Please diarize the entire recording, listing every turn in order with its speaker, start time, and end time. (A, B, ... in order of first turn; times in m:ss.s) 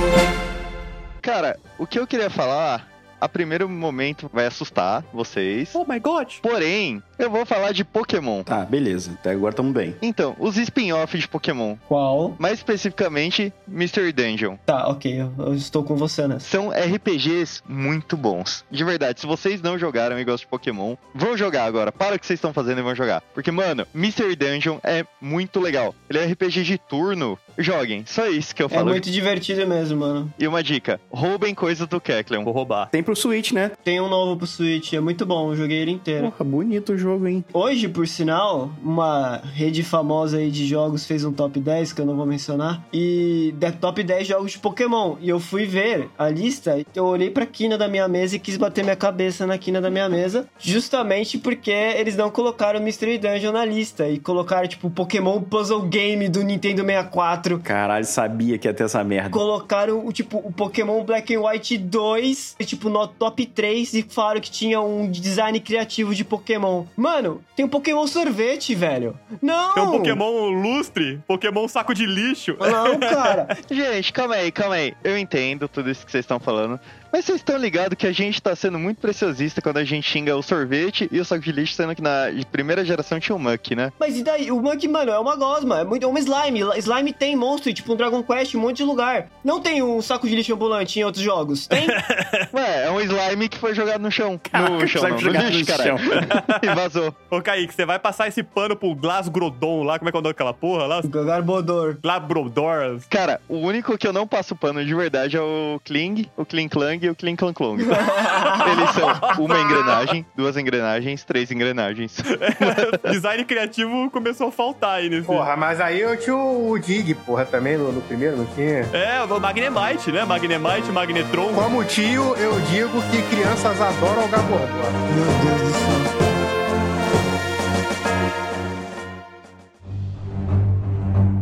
0:01.2-0:05.8 A
0:05.7-0:06.4 B
0:06.4-0:08.5 A
0:08.5-0:10.0 C
0:10.0-0:11.8 A
0:11.9-0:12.4 D
0:12.4-0:14.6 A
0:14.7-0:16.5 D
0:16.4-0:29.0 A
0:28.7-0:30.3 D
0:30.4-0:32.5 A
0:32.4-0:32.9 B
0:32.9-0:33.8 C
0:33.8-0:36.3 D
0:36.2-0:37.5 C
0:37.5-0:57.6 D
0:57.6-0:59.4 C
0:59.3-1:10.2 D
1:09.8-1:13.4 B
1:12.6-1:13.5 D
1:13.7-1:23.9 A
1:24.0-1:32.0 D
1:31.7-1:32.5 B
1:32.5-1:37.2 A
1:34.5-1:36.3 C
1:36.2-1:36.7 B
1:37.3-1:41.1 B
1:41.0-1:42.0 D
1:42.0-1:43.1 B
1:43.1-1:53.1 A
1:47.8-1:49.3 D
1:48.5-1:50.1 B
1:52.3-1:55.5 B
1:55.3-1:58.9 E
1:58.9-2:01.7 B
2:01.5-2:05.0 E
2:05.1-2:06.1 D